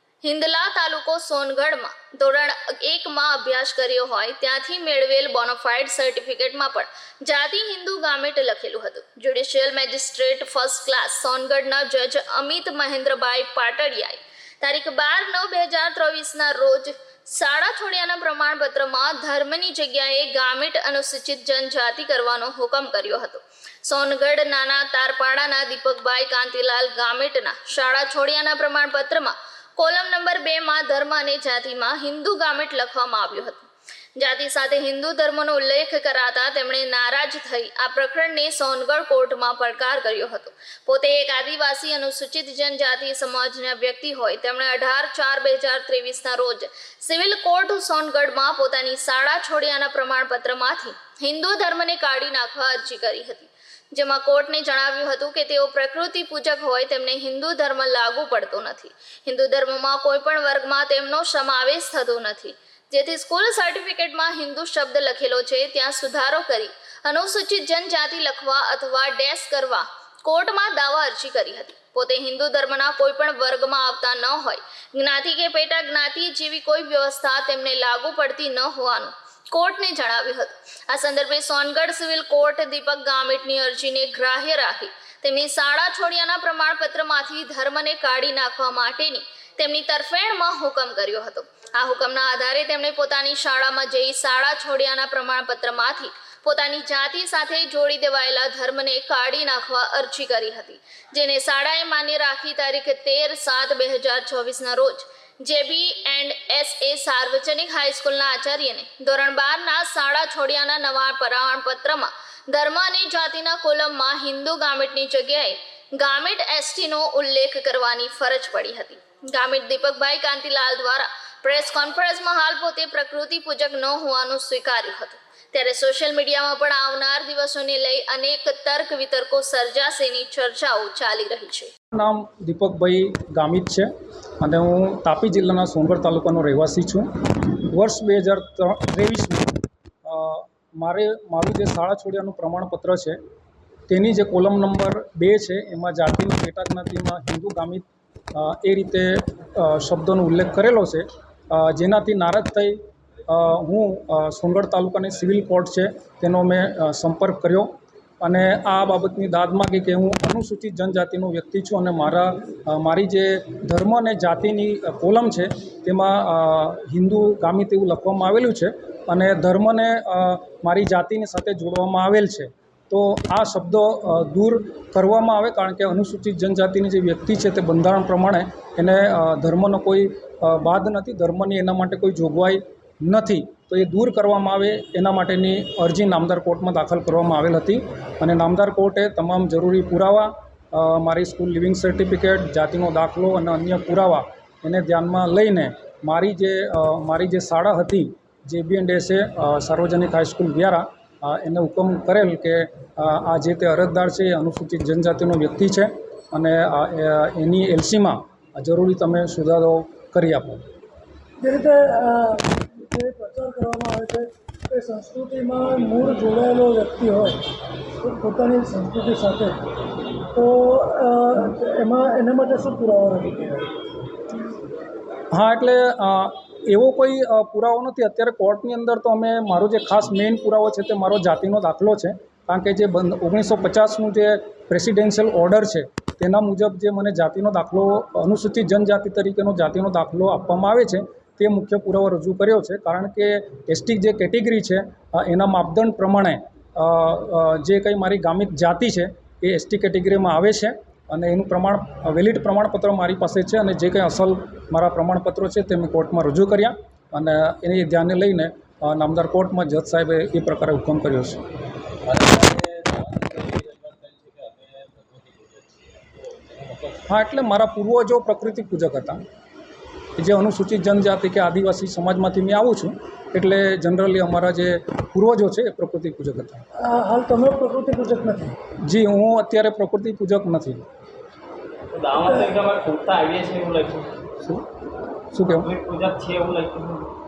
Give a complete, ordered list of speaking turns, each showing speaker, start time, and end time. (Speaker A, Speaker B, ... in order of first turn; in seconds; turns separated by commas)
Speaker A: 0.2-131.7, Speaker B: 131.9-133.9, Speaker B: 134.4-143.2, Speaker B: 143.9-210.6, Speaker C: 211.4-217.5, Speaker C: 218.0-219.7, Speaker C: 220.3-223.7, Speaker B: 225.3-261.4, Speaker D: 262.1-267.0, Speaker B: 267.1-269.2, Speaker B: 270.2-276.6, Speaker C: 276.8-278.5, Speaker B: 278.8-280.8, Speaker D: 281.9-284.1, Speaker B: 285.3-285.7, Speaker D: 285.4-287.1